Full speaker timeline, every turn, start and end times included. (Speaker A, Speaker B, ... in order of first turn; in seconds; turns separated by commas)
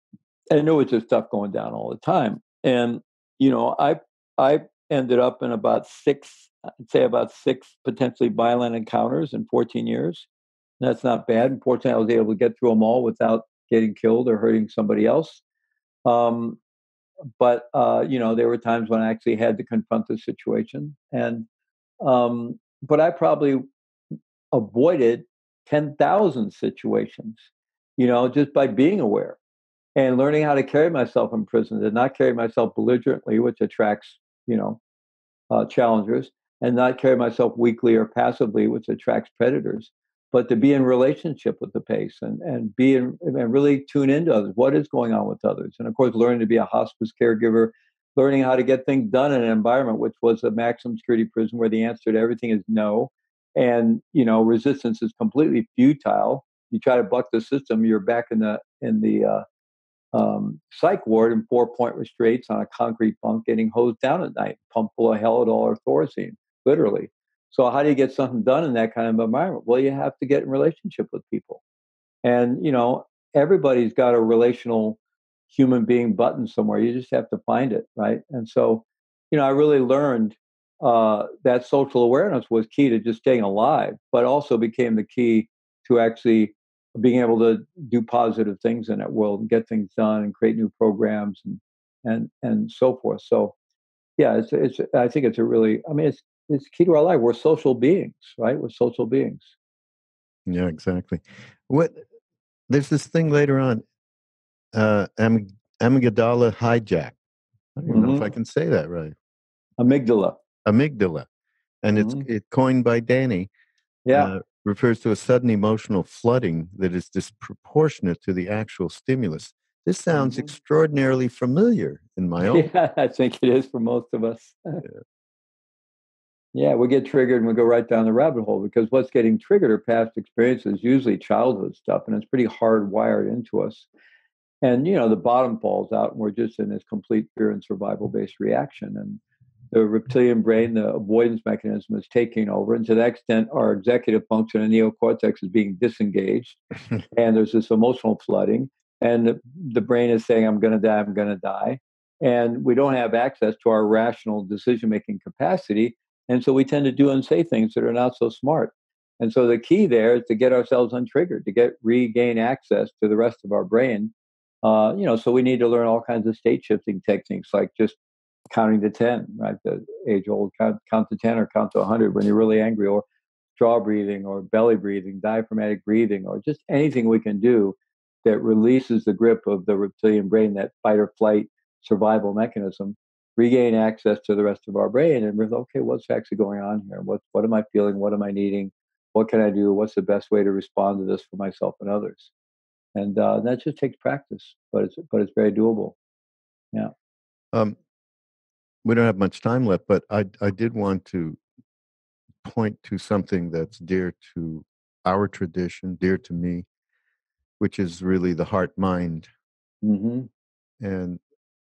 Speaker A: 0.5-10.3, Speaker A: 10.8-15.4, Speaker A: 16.1-16.6, Speaker A: 17.4-21.5, Speaker A: 22.0-23.6, Speaker A: 24.5-27.4, Speaker A: 28.0-29.4, Speaker A: 29.9-34.8, Speaker A: 35.5-59.4, Speaker A: 60.1-71.6, Speaker A: 72.2-75.0, Speaker A: 75.5-93.5, Speaker A: 94.2-99.5, Speaker B: 100.5-102.0, Speaker B: 102.7-103.8, Speaker B: 104.7-107.2, Speaker B: 107.8-109.1, Speaker A: 107.9-108.3, Speaker A: 109.8-110.3, Speaker B: 110.6-111.3, Speaker B: 111.8-113.5, Speaker A: 111.9-112.3, Speaker A: 114.0-114.3, Speaker B: 114.1-122.7, Speaker A: 120.1-120.5, Speaker A: 122.5-124.8, Speaker A: 126.5-133.9, Speaker A: 134.6-139.2, Speaker A: 139.7-146.6, Speaker A: 147.1-164.1, Speaker A: 164.6-168.0, Speaker A: 168.5-173.0, Speaker A: 173.6-192.3, Speaker A: 192.9-195.9, Speaker B: 198.8-201.4, Speaker B: 202.4-206.7, Speaker B: 207.6-209.3, Speaker A: 209.8-210.3, Speaker B: 210.8-211.2